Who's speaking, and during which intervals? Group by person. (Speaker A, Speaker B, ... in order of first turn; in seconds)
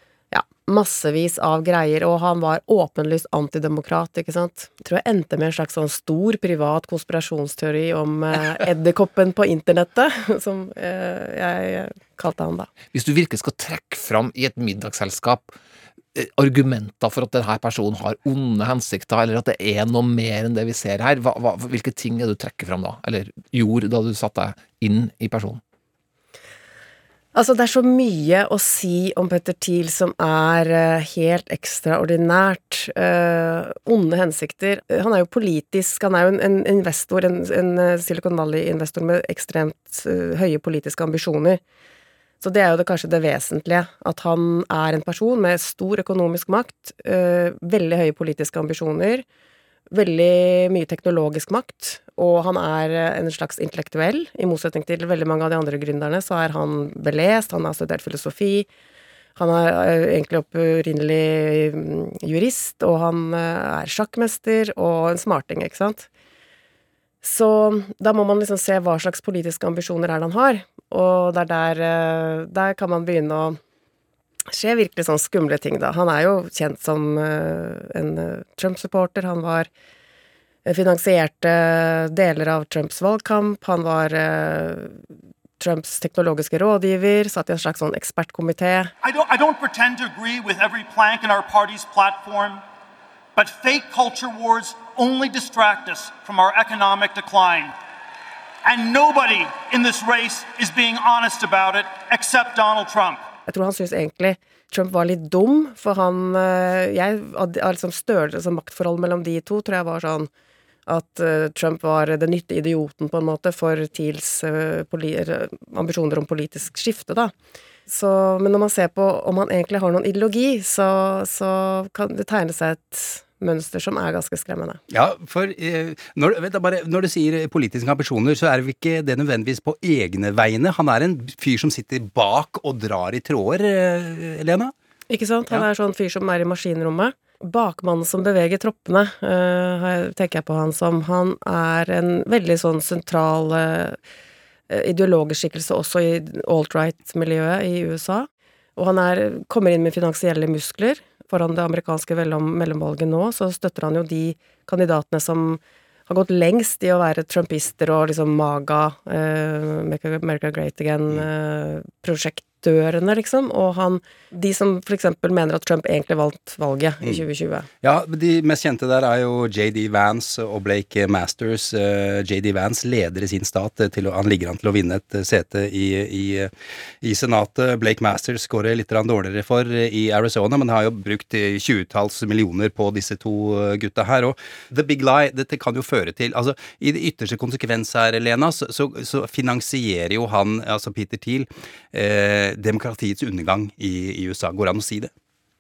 Speaker A: 0.3-12.7, 27.3-41.6, 42.4-49.2, 49.9-58.7, 59.4-66.1, 67.2-73.6, 74.5-79.7, 80.7-85.0, 85.6-88.9, 103.5-110.3, 110.9-117.3, 117.9-124.8, 135.1-144.0, 144.7-167.7
Speaker B: 12.9-15.6, 16.1-25.6
Speaker C: 89.0-92.6, 93.3-97.8, 98.7-103.3
Speaker D: 124.9-134.7, 167.8-176.5, 177.0-195.1